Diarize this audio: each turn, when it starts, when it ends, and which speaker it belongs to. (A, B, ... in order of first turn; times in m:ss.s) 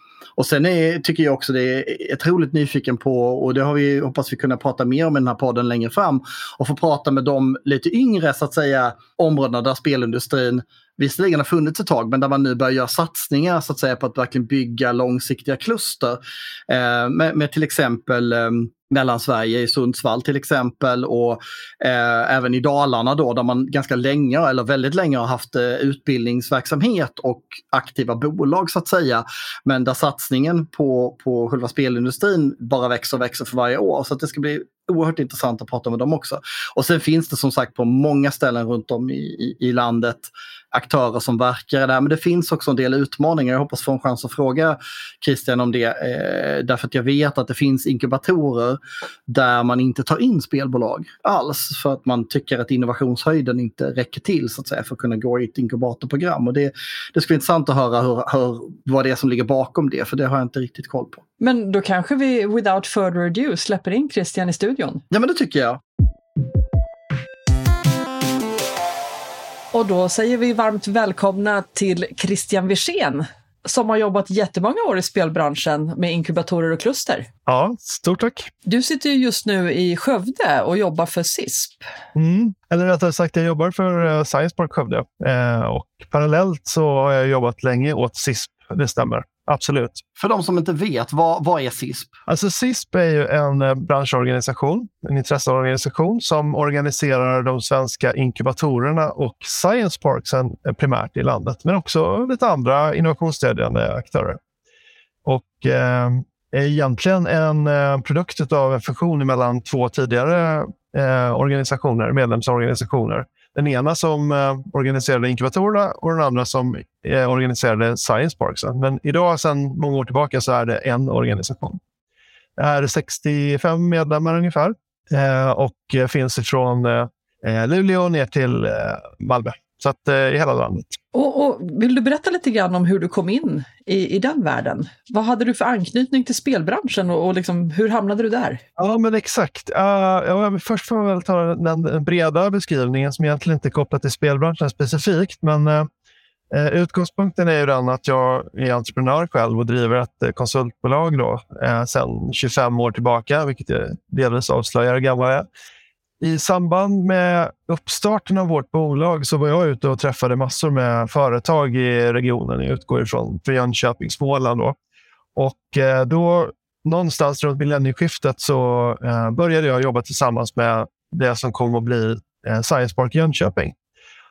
0:00.4-1:01.2 A
1:01.4-1:05.0 B
1:05.1-1:05.8 A
1:09.7-1:17.3 B
1:17.5-1:18.5 C
1:18.7-1:21.8 B
1:22.2-1:30.0 C
1:30.2-1:32.1 A
1:32.3-1:44.4 C
1:45.2-2:01.8 C
2:02.6-2:11.0 C
2:11.1-2:18.6 B
2:18.8-2:25.9 C
2:26.5-2:35.5 C
2:36.2-2:44.8 C
2:45.4-2:53.8 C